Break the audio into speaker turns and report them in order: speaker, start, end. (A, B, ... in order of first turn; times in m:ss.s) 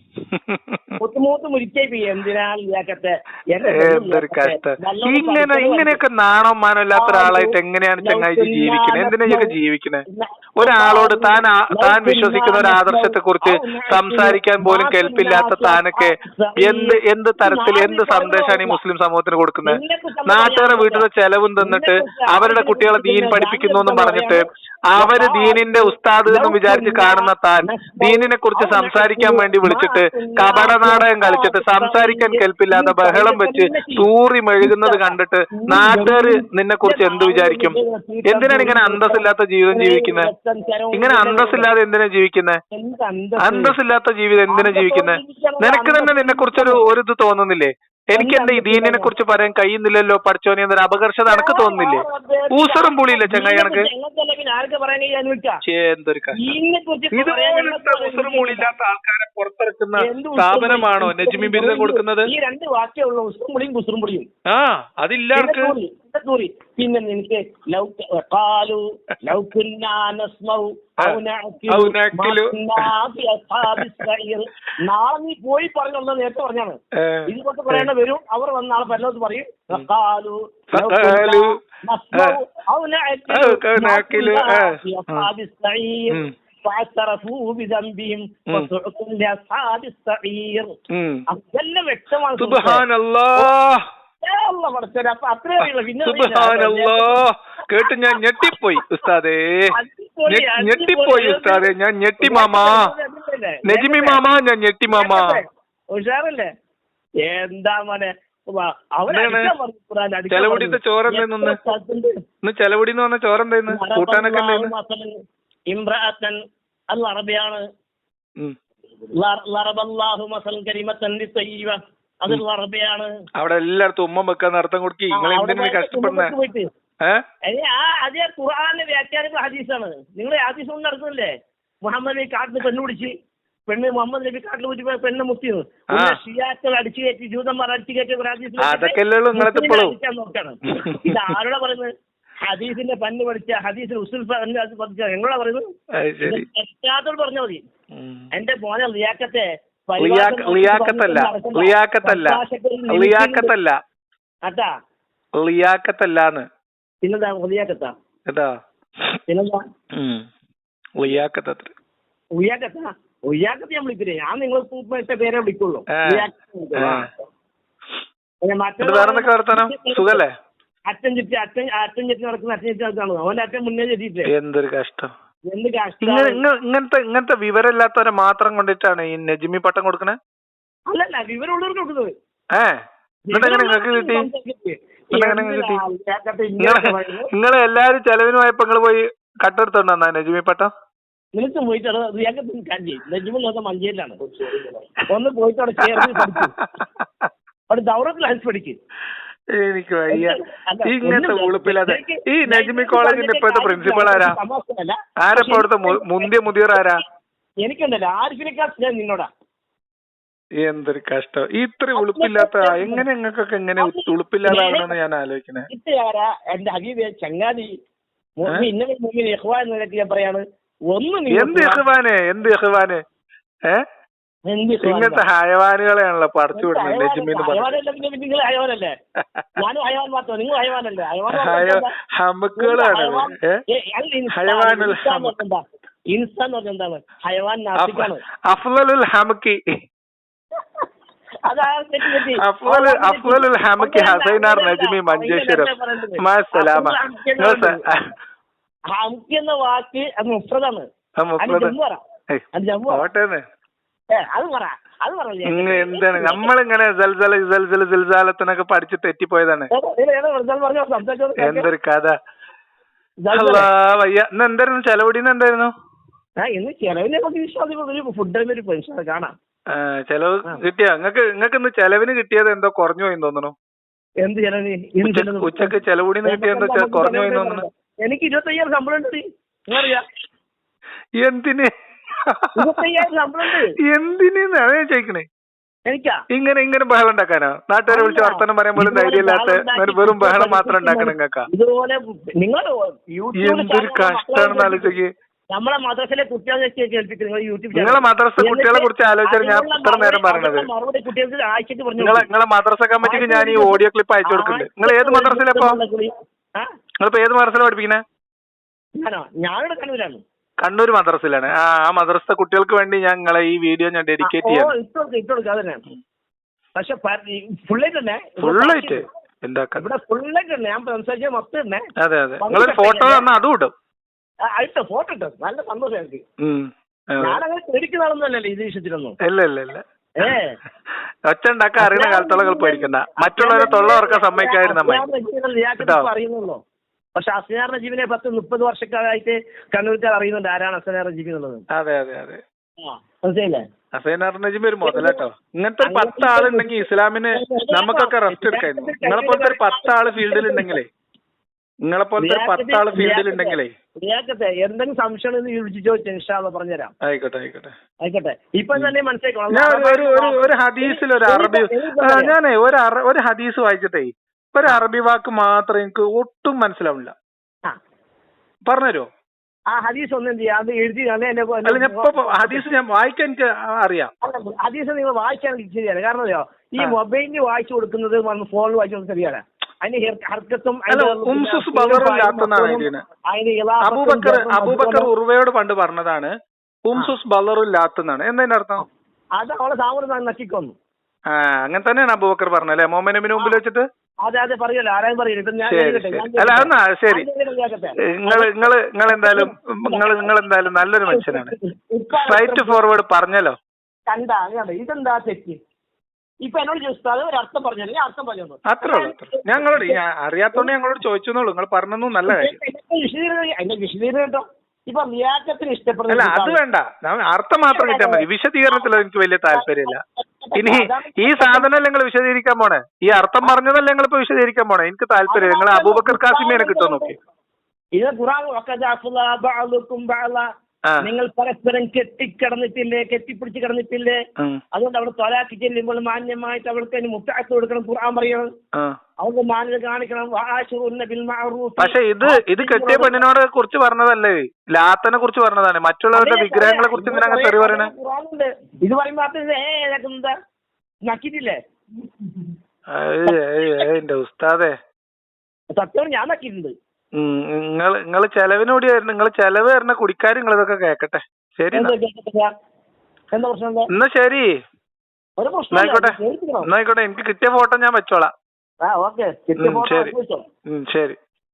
0:00.2-0:01.0 A
0:01.0-0:06.0 B
0:03.7-0:10.0 A
0:06.9-0:09.5 B
0:10.1-0:18.8 B
0:10.6-0:40.3 A
0:19.6-0:21.0 B
0:21.6-0:24.4 B
0:25.0-0:34.1 B
0:34.6-0:41.7 B
0:40.9-0:42.6 A
0:42.7-0:43.8 B
0:43.4-0:53.9 A
0:44.5-0:46.8 B
0:48.1-0:49.1 B
0:51.3-0:55.6 B
0:55.6-0:56.4 A
0:56.3-0:58.7 B
0:57.1-1:02.3 A
1:00.0-1:04.3 B
1:04.5-1:05.7 A
1:05.3-1:30.8 B
1:11.0-1:12.9 A
1:13.6-1:14.0 A
1:16.9-1:17.9 A
1:20.7-1:21.6 A
1:23.3-1:25.3 A
1:30.9-1:31.2 A
1:31.3-1:32.8 B
1:32.4-1:33.8 A
1:34.2-1:37.2 B
1:35.6-1:39.7 A
1:37.8-1:38.5 B
1:39.7-1:44.2 B
1:40.3-1:42.9 A
1:43.6-1:45.4 A
1:44.9-1:46.5 B
1:47.2-1:52.1 B
1:49.1-1:49.5 A
1:50.3-1:51.6 A
1:52.4-1:54.7 A
1:53.7-1:55.2 B
1:55.7-1:56.4 B
1:56.9-1:57.6 B
1:59.2-2:03.1 B
2:03.4-2:06.3 A
2:05.1-2:06.7 B
2:07.4-2:11.3 B
2:11.8-2:13.1 B
2:13.7-2:21.9 B
2:15.9-2:16.2 A
2:18.6-2:20.0 A
2:20.7-2:21.3 A
2:22.4-2:25.6 B
2:26.0-2:26.4 A
2:26.2-2:27.6 B
2:27.9-2:28.3 A
2:28.3-2:33.5 B
2:30.0-2:33.8 A
2:34.4-2:34.7 B
2:35.4-2:36.5 A
2:37.0-2:37.9 B
2:38.3-2:39.2 A
2:39.3-2:39.6 B
2:39.9-2:40.2 A
2:41.0-2:41.7 A
2:42.4-2:47.2 B
2:45.9-2:47.1 A
2:48.4-2:50.2 B
2:48.8-2:50.3 A
2:50.9-2:54.3 B
2:54.3-2:55.1 A
2:55.5-2:56.4 B
2:56.0-3:00.2 A
3:00.9-3:02.1 B
3:02.5-3:04.3 A
3:03.3-3:07.3 B
3:05.1-3:05.8 A
3:06.6-3:10.7 A
3:11.3-3:16.5 B
3:15.8-3:17.3 A
3:17.7-3:18.8 B
3:19.5-3:24.4 A
3:20.1-3:27.0 B
3:25.2-3:27.0 A
3:27.6-3:29.3 B
3:30.6-3:35.7 A
3:31.9-3:33.0 B
3:33.8-3:34.9 B
3:35.7-3:37.7 B
3:38.4-3:41.8 B
3:41.3-3:43.0 A
3:44.5-3:45.2 B
3:44.8-3:47.8 A
3:46.5-3:48.9 B
3:49.6-3:51.9 B
3:51.3-3:53.6 A
3:52.6-3:58.2 B
3:54.3-3:55.4 A
3:57.8-3:59.7 A
4:01.4-4:07.8 B
4:02.0-4:08.1 A
4:08.9-4:10.9 B
4:11.2-4:11.7 A
4:11.4-4:12.0 B
4:12.3-4:13.4 A
4:12.5-4:13.1 B
4:14.1-4:16.5 B
4:15.4-4:19.7 A
4:19.7-4:21.7 B
4:21.4-4:22.2 A
4:23.2-4:23.7 B
4:23.3-4:25.7 A
4:26.4-4:29.3 B
4:29.7-4:33.5 A
4:34.2-4:40.0 B
4:35.0-4:37.6 A
4:41.2-4:42.9 A
4:42.5-4:43.8 B
4:43.5-4:45.2 A
4:45.9-4:46.2 B
4:46.3-4:51.5 A
4:47.9-4:55.0 B
4:53.4-4:55.1 A
4:55.5-5:02.3 B
4:57.7-5:00.7 A
5:02.0-5:05.8 A
5:03.0-5:06.7 B
5:07.0-5:08.0 A
5:09.0-5:10.2 B
5:10.6-5:14.7 A
5:14.2-5:15.8 B
5:16.8-5:19.1 B
5:18.4-5:19.9 A
5:19.7-5:21.8 B
5:22.0-5:23.7 A
5:22.4-5:23.3 B
5:24.5-5:26.2 B
5:26.4-5:27.4 A
5:27.2-5:29.2 B
5:29.2-5:30.4 A
5:30.2-5:30.6 B
5:31.2-5:35.0 A
5:31.8-5:36.6 B
5:35.8-5:36.1 A
5:37.1-5:41.6 B
5:41.7-5:42.4 A
5:42.8-5:43.6 B
5:43.9-5:50.9 A
5:44.8-5:45.2 B
5:45.8-5:50.8 B
5:51.8-5:53.7 A
5:52.2-5:56.9 B
5:57.0-5:57.7 A
5:58.0-6:02.3 B
5:59.5-6:07.1 A
6:08.6-6:09.1 A
6:09.7-6:12.6 B
6:11.6-6:14.1 A
6:14.2-6:25.1 B
6:20.9-6:23.0 A
6:23.8-6:26.3 A
6:26.8-6:28.8 A
6:29.4-6:30.7 B
6:31.3-6:33.8 A
6:34.2-6:40.4 B
6:35.7-6:37.3 A
6:38.1-6:41.5 A
6:41.1-6:42.8 B
6:42.1-6:43.6 A
6:44.1-6:45.6 B
6:46.4-6:50.0 B
6:48.6-6:52.6 A
6:52.1-6:56.6 B
6:56.1-7:00.0 A
6:57.7-6:58.9 B
6:59.5-7:01.7 B
7:00.5-7:07.1 A
7:05.3-7:07.1 B
7:08.0-7:10.4 B
7:11.0-7:14.2 B
7:14.7-7:18.5 B
7:19.2-7:23.2 B
7:21.8-7:27.9 A
7:26.1-7:30.3 B
7:31.0-7:32.5 B
7:32.9-7:34.8 A
7:33.3-7:33.9 B
7:35.7-7:36.7 B
7:37.1-7:41.9 A
7:41.7-7:42.5 B
7:43.3-7:43.9 B
7:43.9-7:44.6 A
7:45.4-7:46.7 B
7:45.7-7:48.3 A
7:48.8-7:50.4 B
7:49.6-7:50.1 A
7:50.7-7:51.2 A